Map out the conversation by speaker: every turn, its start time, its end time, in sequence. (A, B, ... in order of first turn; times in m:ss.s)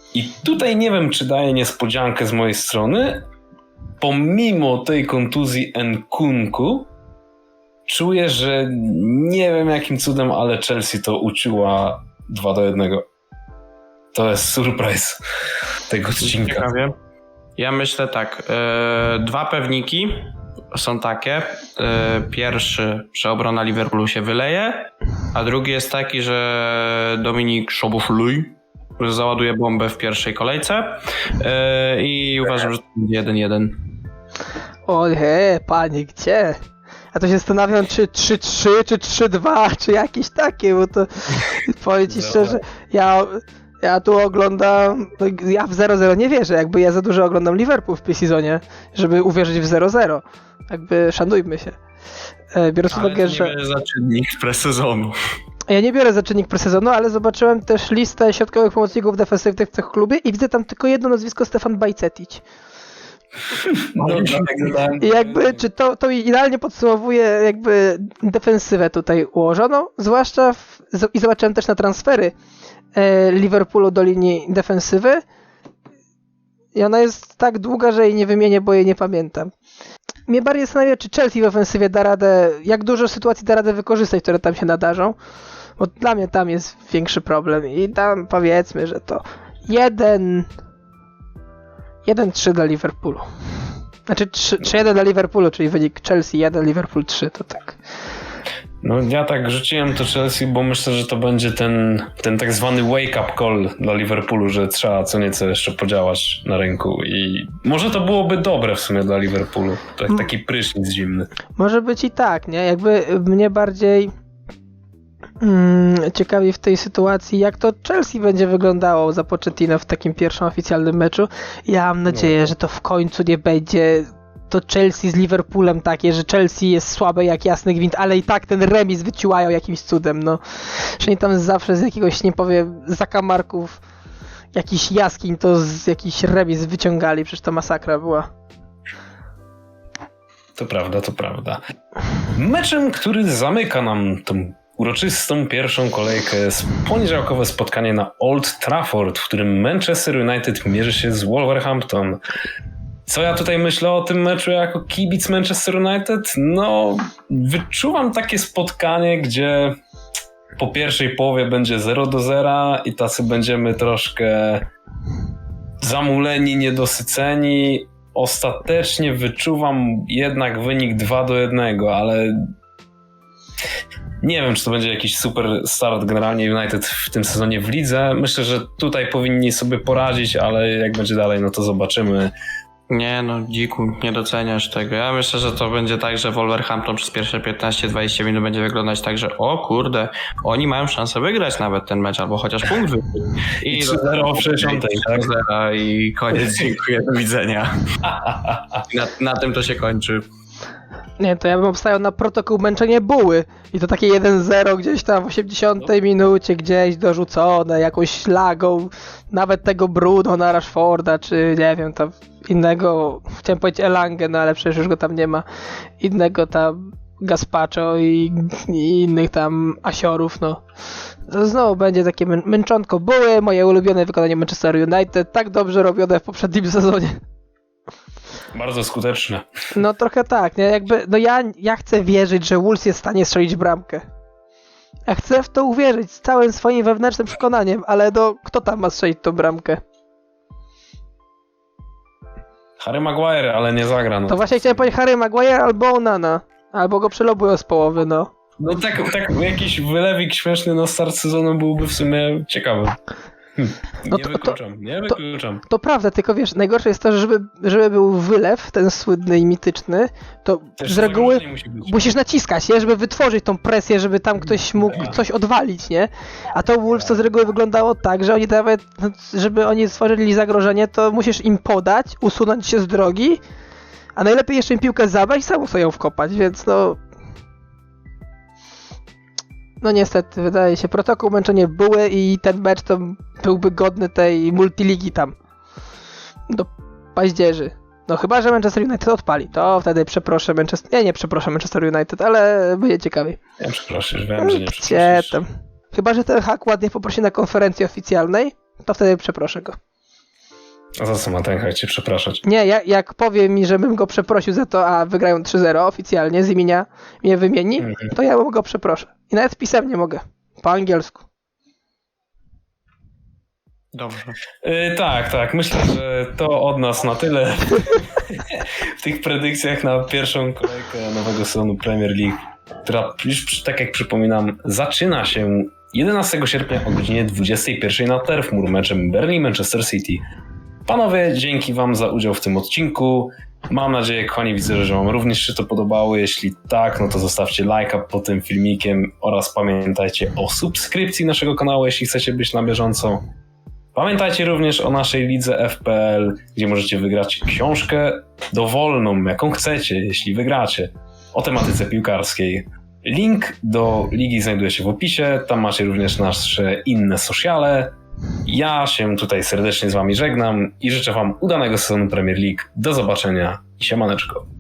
0:00.1-0:03.2 A
0:04.0-0:06.9 A
0:07.9-0:13.1 A
0:14.1-0:15.2 A
0:15.9-0:16.7 A
0:16.2-0:16.9 B
0:17.6-0:33.8 B
0:34.9-0:36.6 C
0:37.1-0:51.8 C
0:42.1-0:42.6 A
0:52.5-0:53.5 C
0:52.9-0:55.2 B
0:55.7-1:02.4 C
1:03.7-1:05.6 A
1:04.0-1:04.8 B
1:05.0-1:12.3 C
1:12.9-1:15.2 C
1:16.8-1:19.5 C
1:20.3-1:25.2 C
1:25.8-1:30.5 C
1:32.0-1:33.3 C
1:34.1-1:37.8 C
1:38.8-1:51.3 A
1:51.5-1:54.1 C
1:55.4-2:13.8 C
2:02.1-2:02.5 A
2:14.5-2:18.3 C
2:20.6-2:21.6 A
2:22.3-2:32.2 A
2:33.1-2:39.8 A
2:40.6-2:44.7 A
2:45.8-2:52.5 A
2:54.2-3:02.3 A
3:02.9-3:17.8 B
3:13.7-3:15.3 A
3:18.0-3:18.8 A
3:18.9-3:20.2 B
3:21.2-3:35.5 C
3:36.0-3:40.6 C
3:41.3-3:47.2 C
3:48.5-3:49.5 A
3:49.7-3:54.0 C
3:55.1-3:59.8 C
4:02.8-4:04.9 A
4:04.3-4:08.3 C
4:08.6-4:13.0 A
4:13.6-4:15.6 A
4:14.1-4:14.6 C
4:15.1-4:33.4 C
4:20.8-4:22.2 A
4:24.9-4:25.2 A
4:34.2-4:37.0 C
4:39.8-4:45.4 C
4:46.5-4:53.4 C
4:53.6-4:55.4 A
4:54.4-4:59.8 C
5:01.0-5:02.4 A
5:02.4-5:11.2 C
5:07.8-5:08.1 A
5:13.9-5:14.4 B
5:14.6-5:30.2 A
5:30.9-5:43.2 A
5:44.0-6:04.5 A